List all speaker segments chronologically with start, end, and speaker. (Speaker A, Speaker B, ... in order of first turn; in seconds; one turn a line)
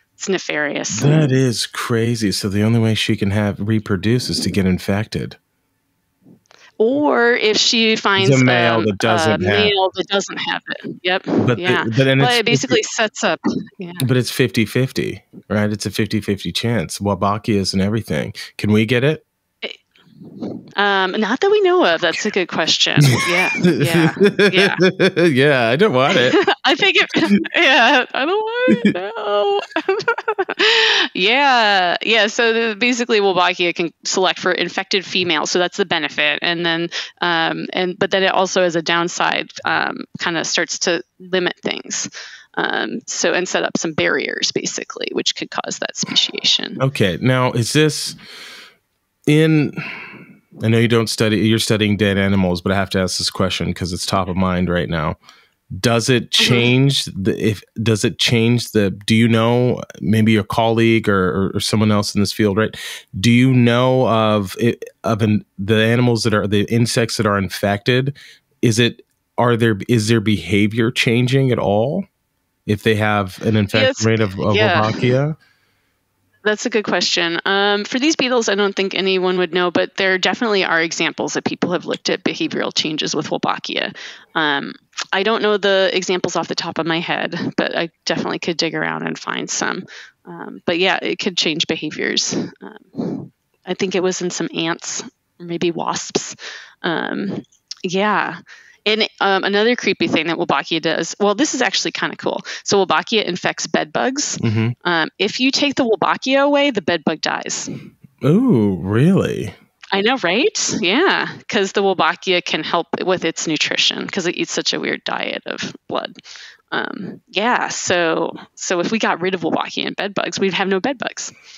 Speaker A: 0.2-1.3
Speaker B: 0.9-5.4
Speaker A: 6.8-14.1
Speaker B: 8.2-9.7
Speaker B: 11.4-12.8
Speaker B: 14.0-19.2
Speaker A: 20.8-24.8
Speaker B: 23.7-26.4
Speaker A: 26.1-46.8
Speaker B: 46.8-48.2
Speaker B: 49.3-49.9
Speaker B: 50.6-55.2
Speaker B: 55.8-72.1
Speaker A: 56.4-56.7
Speaker B: 72.7-75.4
Speaker A: 73.7-75.2
Speaker A: 76.4-107.7
Speaker B: 104.4-104.7
Speaker B: 108.2-109.5
Speaker A: 109.9-116.1
Speaker A: 116.7-121.3